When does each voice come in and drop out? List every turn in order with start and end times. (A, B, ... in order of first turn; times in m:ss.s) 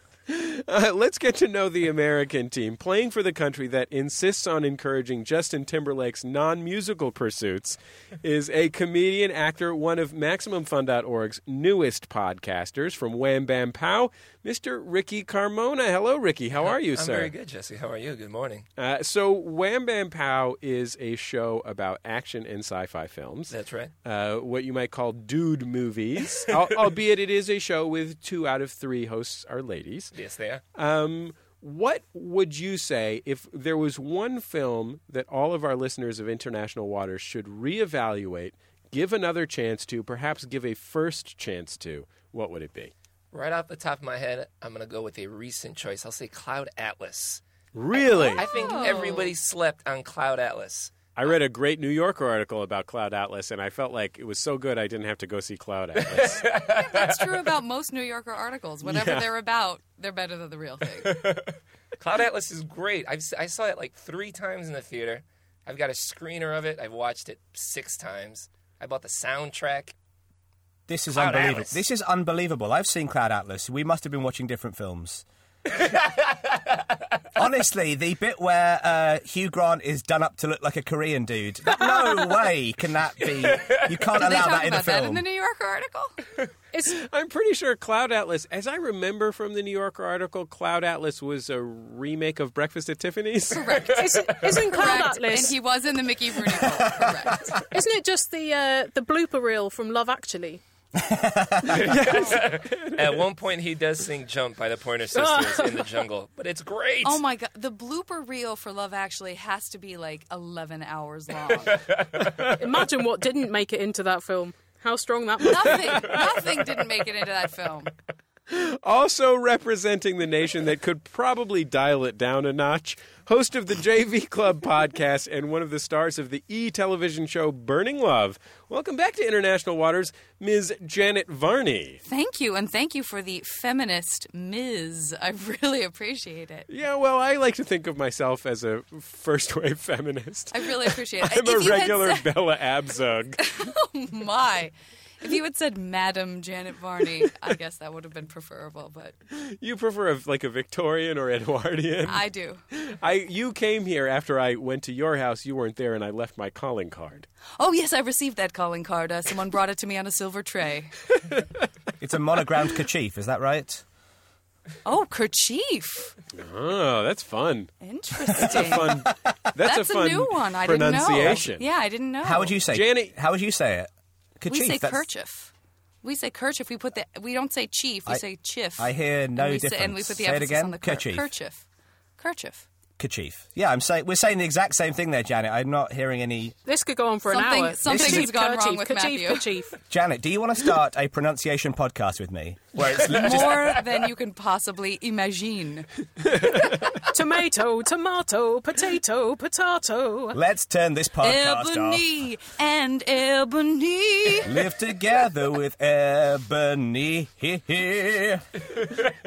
0:00.3-0:17.3 A
0:16.6-0:18.6 B
0:18.8-0:30.1 A
0:23.5-0:23.9 B
0:30.1-0:30.6 B
0:30.7-0:42.9 A
0:43.3-0:47.4 B
0:47.7-0:48.5 A
0:47.9-0:50.9 B
0:48.4-0:49.3 C
0:51.2-0:56.4 A
0:56.0-0:57.4 B
0:56.5-1:01.2 C
0:58.8-0:59.3 A
1:01.1-1:09.9 B
1:10.9-1:15.2 D
1:11.1-1:11.8 B
1:17.4-1:25.2 D
1:24.1-1:26.1 C
1:26.9-1:33.7 A
1:33.5-1:37.6 C
1:33.9-1:35.6 E
1:37.7-1:40.6 E
1:41.0-1:41.8 D
1:41.7-1:43.2 A
1:41.8-1:47.2 B
1:45.1-1:46.0 E
1:47.0-1:51.8 C
1:51.6-1:52.2 B
1:52.6-1:56.2 E
1:55.4-1:57.9 C
1:58.5-2:12.0 A
2:12.0-2:16.7 C
2:16.7-2:23.4 A
2:20.5-2:22.3 C
2:23.4-2:29.1 C
2:29.3-2:37.3 A
2:32.1-2:32.6 C
2:37.6-2:41.0 C
2:42.0-2:43.8 D
2:44.8-2:46.1 C
2:46.3-2:47.7 A
2:47.8-2:49.1 C
2:48.4-2:51.6 A
2:49.6-2:52.6 C
2:52.2-2:55.0 D
2:52.7-2:53.1 A
2:54.5-2:55.5 C
2:56.0-3:01.6 C
2:58.8-3:01.3 D
3:02.2-3:02.7 C
3:03.0-3:06.6 D
3:06.6-3:09.8 E
3:07.2-3:09.5 C
3:07.9-3:08.2 D
3:09.9-3:13.9 D
3:13.0-3:15.9 C
3:17.1-3:20.4 E
3:20.3-3:22.0 D
3:21.2-3:24.5 C
3:24.4-3:28.5 D